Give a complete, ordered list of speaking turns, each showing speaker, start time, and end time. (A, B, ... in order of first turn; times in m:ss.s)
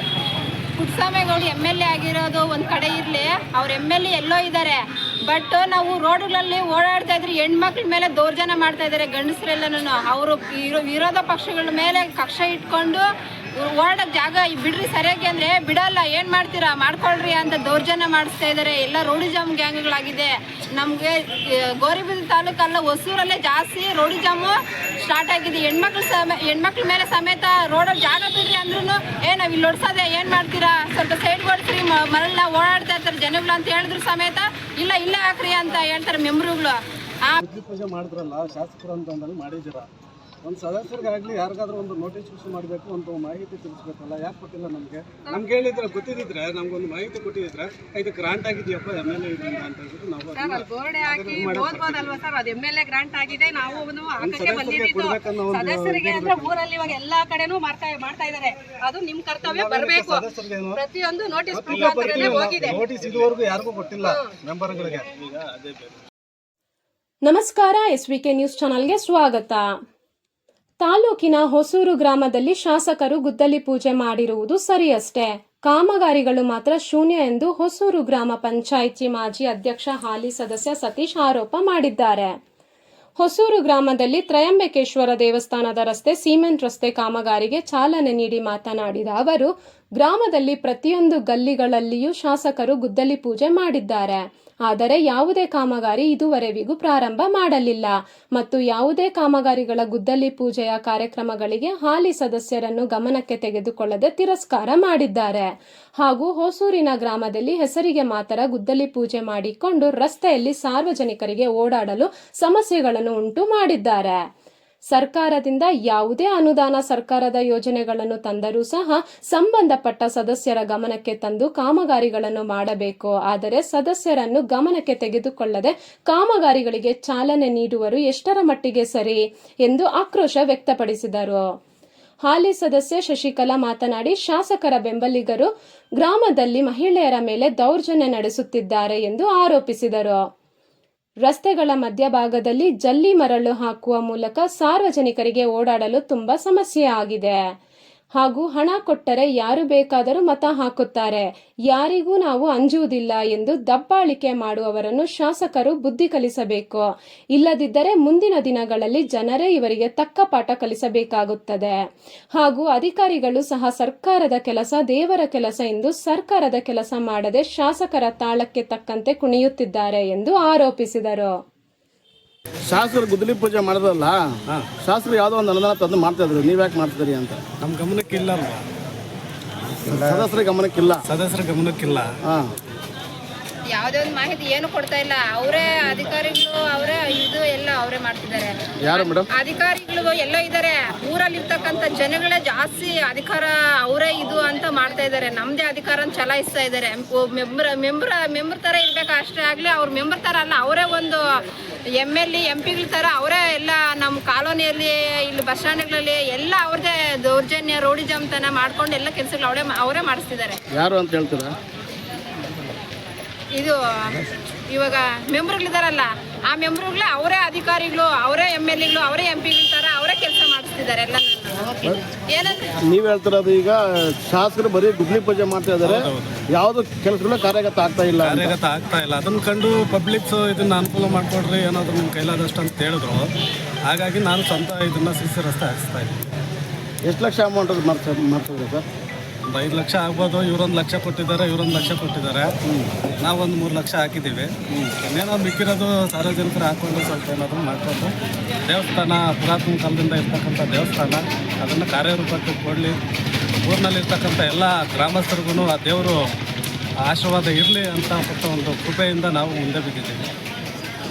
0:00.8-0:13.0 A
0:13.6-0:37.4 A
0:37.4-0:39.9 B
0:40.4-0:52.2 B
0:50.3-1:02.8 C
0:54.2-0:56.6 B
0:59.4-1:00.8 B
1:01.5-1:05.8 B
1:07.2-1:09.6 D
1:10.8-1:22.3 D
1:23.2-1:54.2 D
1:54.9-2:11.4 D
2:12.2-2:20.2 D
2:21.2-2:27.4 D
2:28.2-2:41.7 D
2:42.3-2:51.4 D
2:52.6-2:54.2 E
2:54.8-2:57.4 E
2:57.6-2:58.6 B
2:59.8-3:00.3 B
2:59.8-3:01.0 E
3:01.0-3:02.1 B
3:03.7-3:21.2 A
3:08.8-3:09.3 E
3:22.0-3:30.6 A
3:30.7-3:31.5 E
3:33.5-3:42.8 A
3:42.8-3:48.5 E
3:45.8-3:46.4 B
3:48.2-3:53.3 B
3:53.8-3:56.2 B
3:57.0-3:58.8 E
3:59.4-4:02.5 B
4:02.6-4:02.9 E
4:03.2-4:08.1 B
4:08.7-4:13.0 B
4:13.6-4:16.2 B
4:17.0-4:20.2 B